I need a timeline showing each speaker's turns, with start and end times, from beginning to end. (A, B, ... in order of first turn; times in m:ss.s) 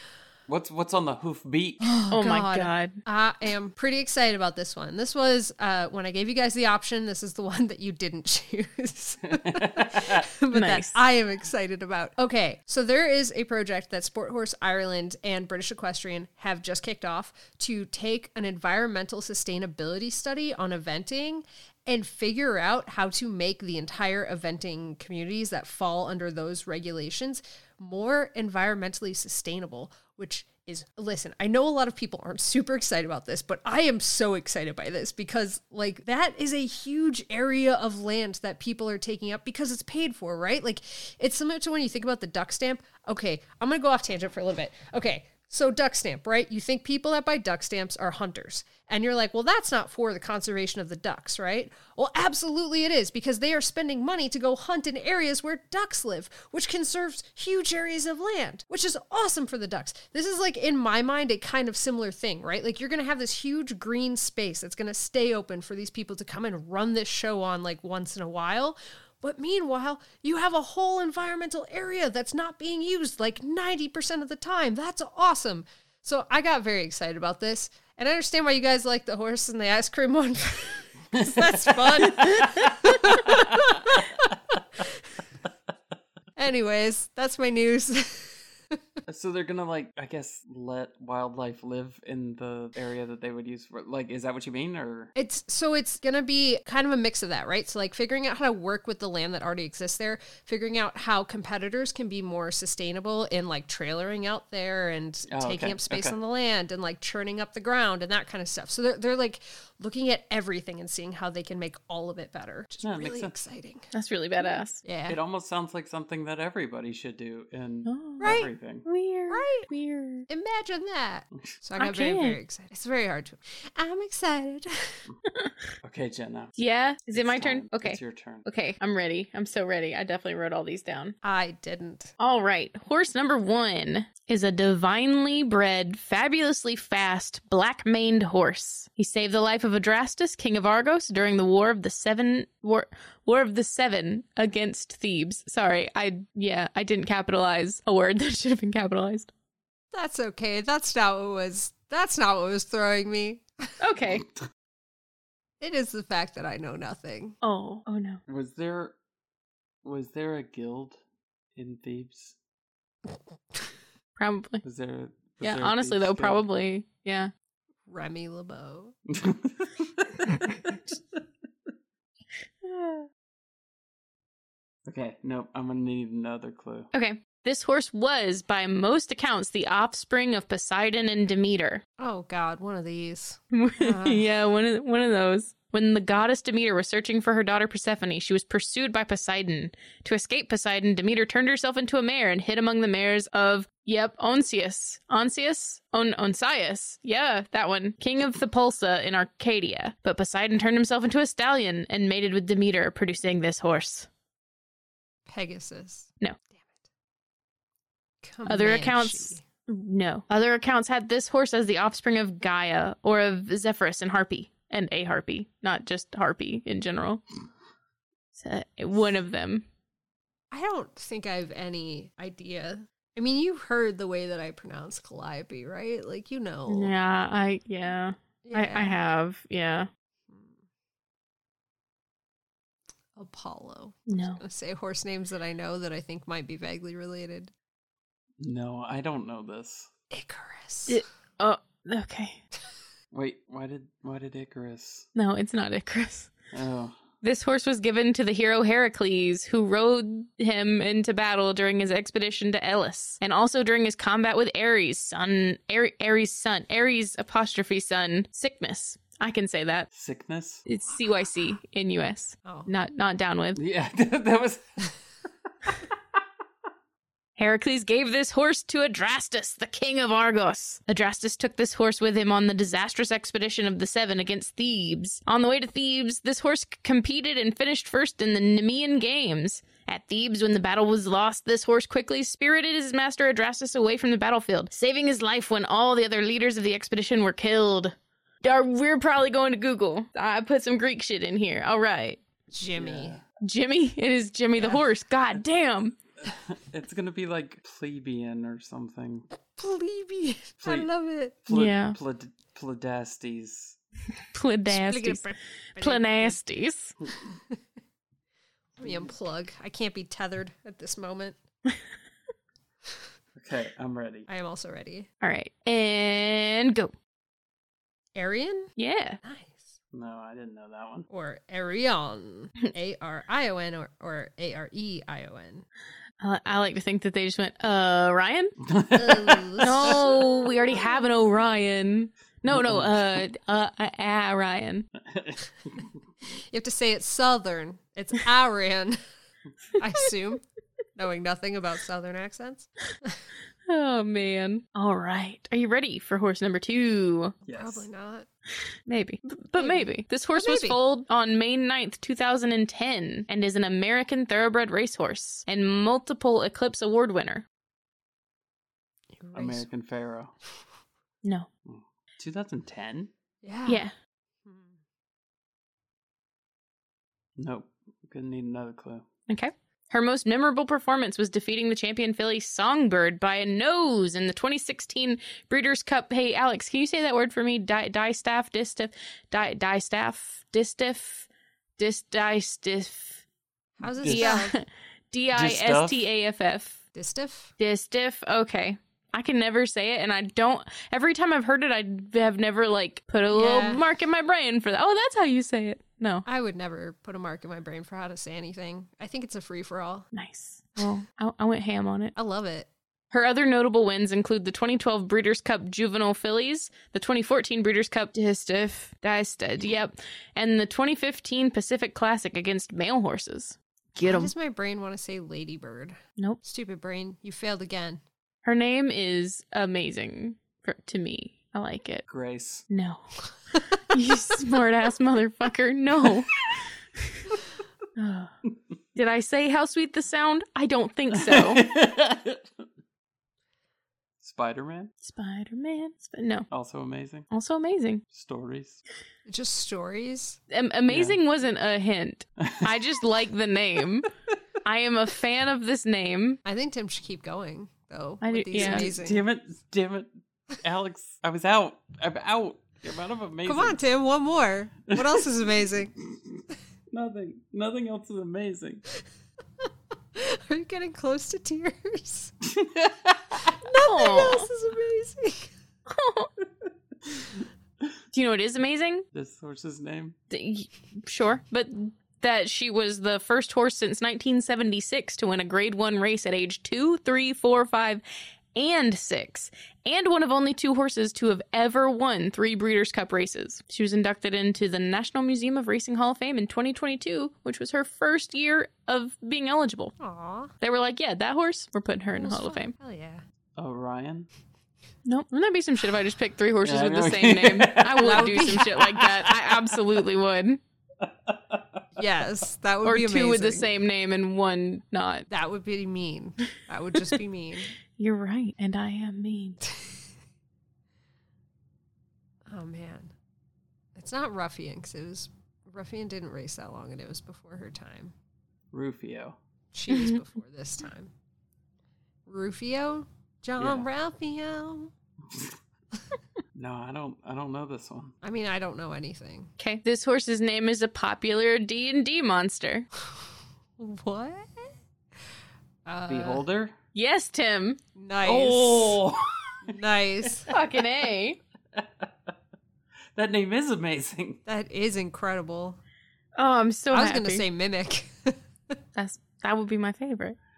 0:00.5-0:01.9 A
0:01.8-1:25.0 B
0:02.1-0:03.0 C
0:09.2-0:10.3 A
0:10.5-0:11.0 C
1:21.1-1:24.0 A
1:26.4-1:28.8 B
1:29.1-1:35.1 A
1:35.1-1:53.9 B
1:45.3-1:46.1 A
1:52.8-1:53.4 A
1:53.9-1:54.8 C
1:54.8-1:55.2 B
1:55.1-1:58.8 A
1:57.8-1:58.3 C
1:58.2-1:58.5 B
1:58.8-2:00.2 C
1:59.3-1:59.7 B
2:00.3-2:05.0 B
2:01.8-2:02.4 C
2:05.3-2:05.7 C
2:05.8-2:06.5 A
2:06.6-2:11.1 C
2:07.1-2:08.4 A
2:11.2-2:12.1 B
2:12.2-2:29.3 C
2:29.9-2:33.4 B
2:33.8-2:34.3 C
2:35.6-2:37.4 B
2:37.4-2:38.2 C
2:38.3-2:39.0 A
2:39.8-2:41.0 A
2:41.5-2:42.4 A
2:44.2-2:44.6 C
2:44.6-2:46.4 A
2:45.4-2:47.3 C
2:47.9-2:48.9 B
2:49.1-2:50.8 A
2:52.6-2:53.1 C
2:54.8-2:56.9 A
2:56.9-3:01.8 C
3:02.0-3:04.2 B
3:03.5-3:24.1 C
3:25.3-3:26.8 B
3:28.2-3:29.4 B
3:28.4-3:37.2 C
3:38.3-3:39.6 C
3:40.5-3:46.9 B
3:46.7-3:49.9 C
3:48.4-3:49.0 B
3:50.3-3:50.6 B
3:53.2-3:57.5 B
3:54.1-3:54.4 C
3:58.4-3:59.9 A
4:00.1-4:01.0 B
4:00.9-4:02.4 C
4:03.1-4:05.1 A
4:05.2-4:06.3 C
4:06.5-4:07.0 A
4:07.2-4:19.9 C
4:19.9-4:20.6 A
4:20.6-4:23.6 C
4:22.4-4:22.7 B
4:23.6-4:24.8 A
4:27.4-4:52.2 C
4:52.5-4:53.2 B
4:52.8-4:53.2 A
4:53.4-4:56.0 C
4:56.2-4:59.2 A
4:59.6-5:01.4 B
5:00.6-5:00.9 A
5:01.4-5:03.8 A
5:01.5-5:02.0 C
5:04.3-5:05.2 C
5:04.7-5:06.4 B
5:05.8-5:06.9 C
5:08.8-5:11.4 B
5:08.8-5:09.1 A
5:13.3-5:14.3 A
5:14.3-5:15.1 B
5:15.2-5:16.9 C
5:18.2-5:19.7 B
5:18.8-5:19.2 C
5:19.9-5:21.1 A
5:21.1-5:25.6 B
5:26.2-5:28.6 C
5:28.6-5:30.5 A
5:28.9-5:30.1 B
5:29.6-5:34.9 C
5:32.5-5:33.2 A
5:35.0-5:36.0 A
5:36.5-5:39.0 B
5:39.8-5:40.4 B
5:41.0-5:43.2 B
5:43.7-5:47.4 C
5:47.4-5:47.8 A
5:47.5-5:48.3 B
5:48.9-5:57.4 C
5:49.6-5:50.8 B
5:59.2-5:59.6 B
5:59.3-6:00.3 A
6:01.2-6:01.5 C
6:01.6-6:03.1 A
6:03.4-6:03.8 B
6:07.4-6:09.0 A
6:09.3-6:23.2 C
6:23.8-6:24.6 B
6:23.9-6:24.3 A
6:24.0-6:26.8 C
6:25.3-6:26.1 A
6:26.9-6:27.5 B
6:27.6-6:36.2 C
6:33.3-6:33.8 B
6:36.2-6:40.1 B
6:40.1-6:42.1 C
6:42.2-6:42.7 B
6:43.1-6:54.3 C
6:54.0-6:58.0 B
6:58.4-7:02.0 C
7:02.1-7:02.6 A
7:02.7-7:03.2 C
7:03.8-7:06.4 C
7:07.0-7:07.3 C
7:08.0-7:08.3 C
7:08.9-7:11.6 C
7:11.1-7:12.6 A
7:14.2-7:14.9 A
7:15.0-7:16.5 C
7:16.5-7:17.3 A
7:17.3-7:18.0 C
7:18.1-7:18.8 A
7:19.3-7:20.4 B
7:20.5-7:24.1 C
7:20.9-7:21.2 A
7:22.4-7:22.8 A
7:24.6-7:26.4 C
7:26.4-7:29.2 B
7:28.2-7:28.9 C
7:28.5-7:33.8 A
7:33.4-7:35.9 B
7:34.9-7:35.3 A
7:36.1-7:36.4 A
7:36.9-7:38.8 A
7:40.2-7:42.3 B
7:42.4-7:43.5 A
7:43.4-7:45.5 B
7:43.8-7:44.5 C
7:45.9-7:46.3 C
7:48.1-7:49.0 C
7:49.1-7:50.2 A
7:50.3-7:58.0 C
7:58.5-8:10.0 C
8:10.0-8:10.5 B
8:10.6-8:12.7 C
8:12.1-8:13.2 B
8:13.6-8:14.3 A
8:15.0-8:20.6 C
8:16.6-8:20.0 A
8:18.0-8:18.7 B
8:21.0-8:21.8 A
8:22.0-8:23.7 B
8:22.8-8:25.2 C
8:25.3-8:27.7 B
8:28.0-8:29.6 C
8:32.5-8:33.1 B
8:33.9-8:38.1 B
8:38.7-8:39.4 A
8:39.7-8:41.1 B
8:42.2-8:44.9 B
8:43.6-8:43.9 A
8:45.3-8:45.6 A
8:46.5-8:48.1 A
8:48.2-8:49.5 B
8:49.6-8:52.9 C
8:53.8-8:54.7 B
8:55.8-8:56.4 B
8:56.1-8:56.8 A
8:56.9-8:57.8 C
8:58.0-8:59.0 B
8:58.2-8:59.8 A
8:59.6-9:00.5 B
9:00.4-9:00.8 A
9:00.5-9:01.4 C
9:01.7-9:02.3 A
9:03.1-9:04.4 A
9:04.4-9:05.8 B
9:06.4-9:07.4 C
9:06.9-9:08.4 B
9:09.0-9:10.4 C